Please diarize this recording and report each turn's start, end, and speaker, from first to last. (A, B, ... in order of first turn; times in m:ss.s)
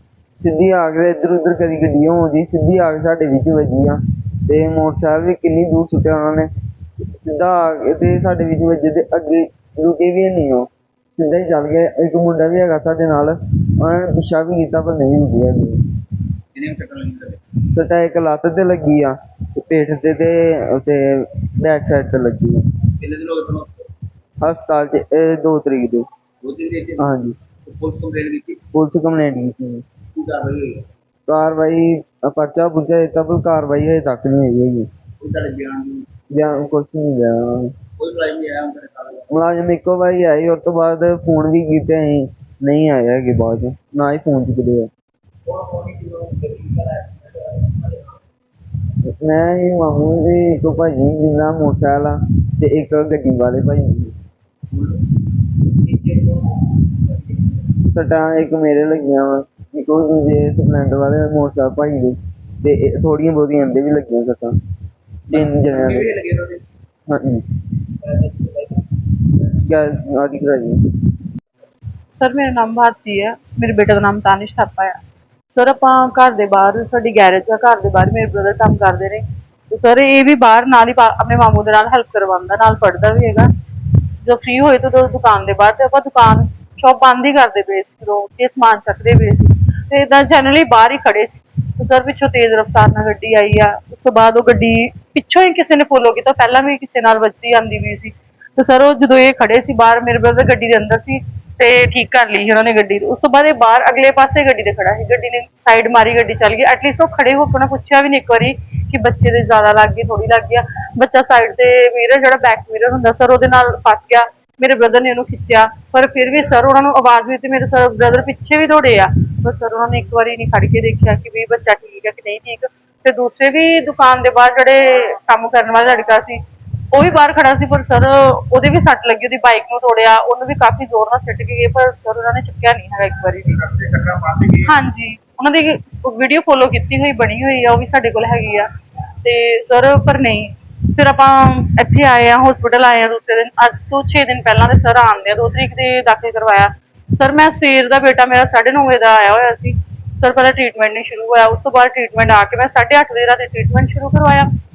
0:00.4-0:06.5 A
0:07.1-0:15.8 A
0:16.6-0:17.4 B
0:17.7-0:22.6 A
0:23.0-0:23.8 B
0:24.4-0:26.1 A
0:26.4-0:27.0 B
0:27.0-0:27.4 A
0:27.7-0:28.6 B
0:28.7-0:29.8 A
0:30.2-0:30.8 B
0:31.3-0:34.9 A
0:35.2-0:36.1 B
0:36.4-0:37.8 A
0:38.0-0:39.3 B
0:39.3-0:44.9 A
0:45.5-0:47.1 B
0:49.1-0:54.1 A
0:55.9-0:56.4 B
0:57.9-1:04.6 A
1:05.3-1:06.1 A
1:05.7-1:06.6 B
1:07.1-1:07.4 A
1:09.5-1:10.8 A
1:12.2-1:15.0 C
1:15.5-1:23.5 C
1:24.2-2:18.7 C
2:19.2-2:34.5 C